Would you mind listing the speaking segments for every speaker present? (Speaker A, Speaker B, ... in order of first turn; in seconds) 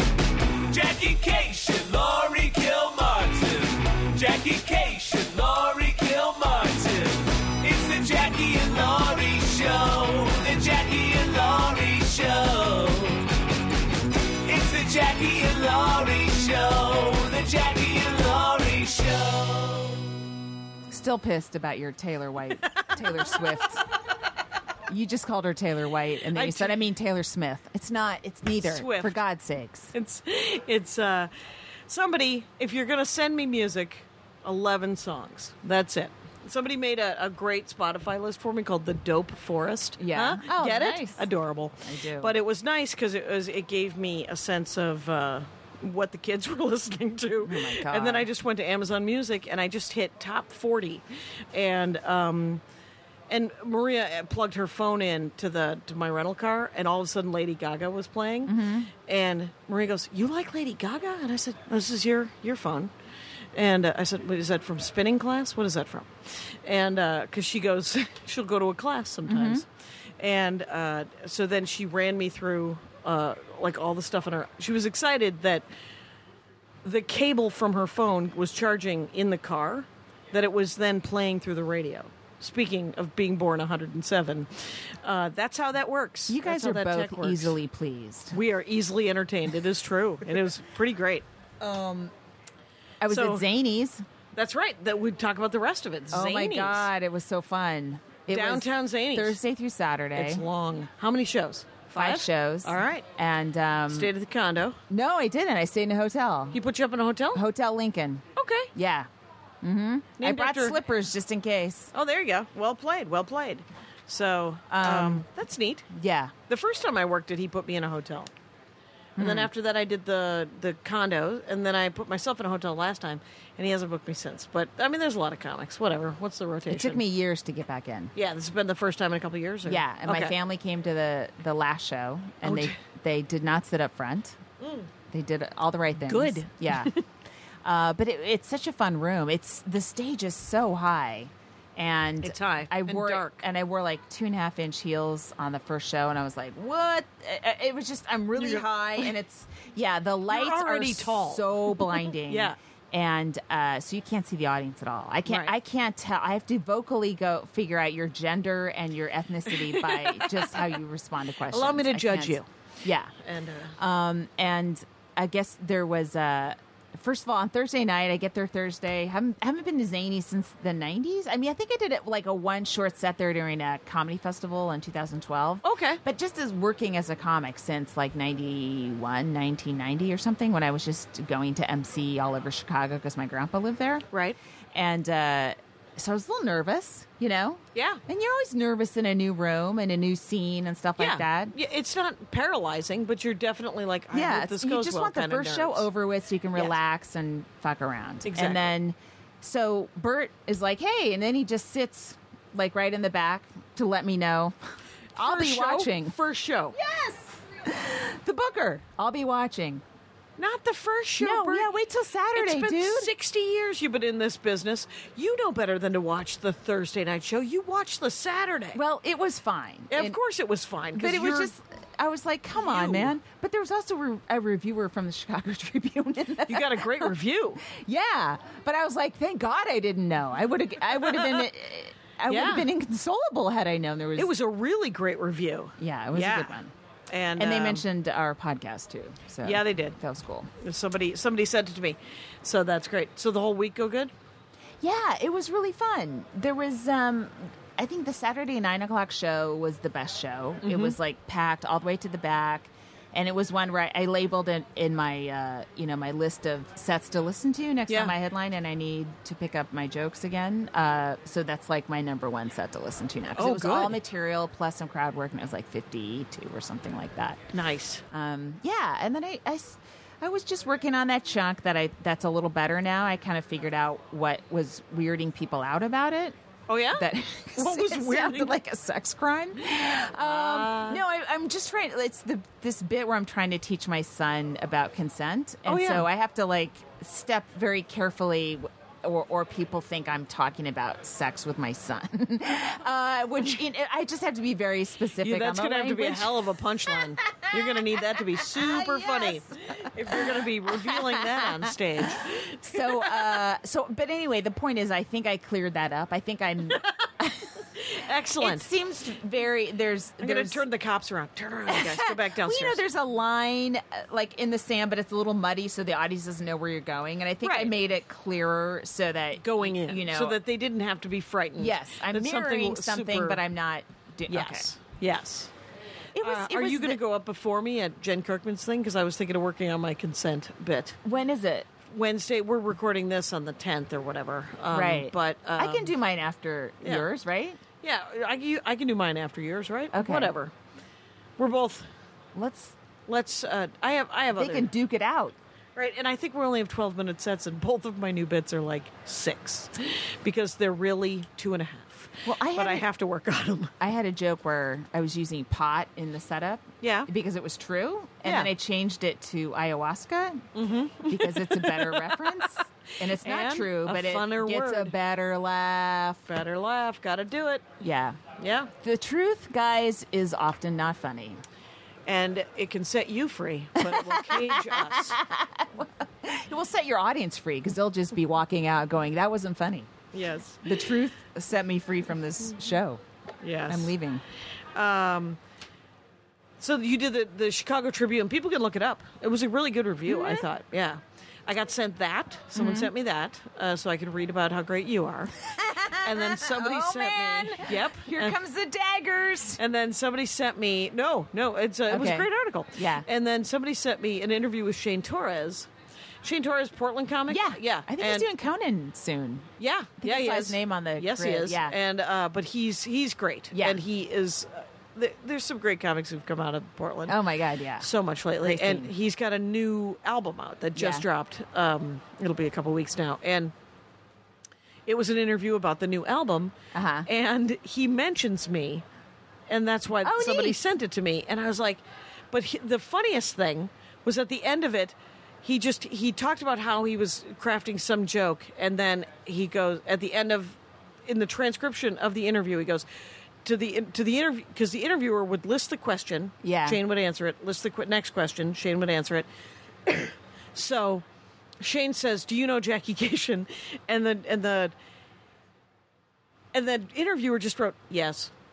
Speaker A: 0.7-13.2, 14.4-20.0
Speaker B: 20.9-23.9, 24.9-29.9, 40.0-41.3, 41.8-42.4, 47.4-48.3, 58.5-58.9, 69.3-69.6, 86.3-88.4, 91.6-92.1, 93.0-94.0, 96.1-100.4, 102.0-104.1, 104.9-106.6, 107.3-108.2, 108.7-109.1, 109.6-111.9, 114.7-115.2, 115.9-116.3, 119.2-119.5, 126.7-128.1, 129.7-134.4, 135.1-136.9, 137.6-163.1, 163.8-184.1, 184.7-191.6, 194.1-204.6, 205.2-206.2, 206.8-209.8, 211.2-213.1, 218.8-220.2, 220.9-234.3, 235.8-236.7, 237.4-240.5, 244.8-267.5, 268.1-276.4, 276.9-301.5, 302.6-307.6, 308.4-310.6, 311.7-320.4, 321.6-324.7, 326.1-327.0, 331.0-331.7, 334.7-337.6, 339.9-340.3, 342.4-342.8, 344.3-345.4, 352.2-352.9, 353.8-360.5, 361.1-366.2, 367.8-368.2, 368.8-371.4, 373.8-379.9, 380.6-383.0, 383.7-384.2, 390.1-390.5, 392.6-392.9, 395.4-399.6, 401.9-403.1, 407.3-409.5, 410.0-411.8, 413.5-413.8, 417.1-417.9, 418.4-418.9, 420.8-421.1, 426.7-427.1, 430.0-430.6, 446.4-446.8
Speaker C: 26.3-26.8, 28.6-29.2, 29.9-31.3, 31.9-52.6, 53.3-62.9, 63.5-69.7, 70.2-75.7, 76.8-87.6, 88.3-91.3, 93.1-93.5, 94.3-96.9, 98.3-99.4, 100.2-103.1, 103.9-104.8, 106.5-107.4, 108.4-108.7, 110.2-110.8, 111.9-115.9, 116.5-118.3, 119.2-127.0, 128.2-130.3, 132.4-132.8, 134.6-134.9, 136.0-137.1, 142.2-143.4, 148.4-149.1, 150.3-152.6, 155.3-155.5, 159.5-160.7, 161.5-162.5, 163.2-163.8, 175.6-176.0, 184.1-184.4, 187.8-188.0, 191.0-195.9, 198.2-198.7, 205.2-206.8, 210.4-211.7, 212.3-218.8, 219.9-221.5, 222.6-223.1, 226.5-227.6, 231.1-231.5, 232.3-232.7, 234.2-236.6, 237.1-237.8, 239.4-240.0, 240.6-244.1, 250.6-251.0, 257.9-258.1, 263.4-264.0, 267.5-268.0, 276.7-278.6, 280.2-281.0, 285.7-286.1, 295.2-303.4, 306.7-307.1, 307.6-308.7, 310.2-312.8, 317.4-317.7, 319.4-323.4, 324.3-325.5, 326.2-331.0, 331.9-336.0, 336.8-337.1, 337.8-340.5, 341.4-341.9, 343.1-344.7, 345.8-353.7, 356.8-357.1, 358.2-358.5, 360.6-364.9, 366.3-367.7, 368.4-368.7, 372.1-375.2, 380.1-380.8, 383.4-383.9, 384.7-385.4, 386.6-395.4, 395.9-398.4, 399.6-405.7, 406.2-408.3, 409.6-417.2, 417.8-423.5, 424.9-426.5, 427.1-428.8, 429.5-442.9, 443.4-449.3, 449.9-451.1, 451.6-454.7, 456.5-458.3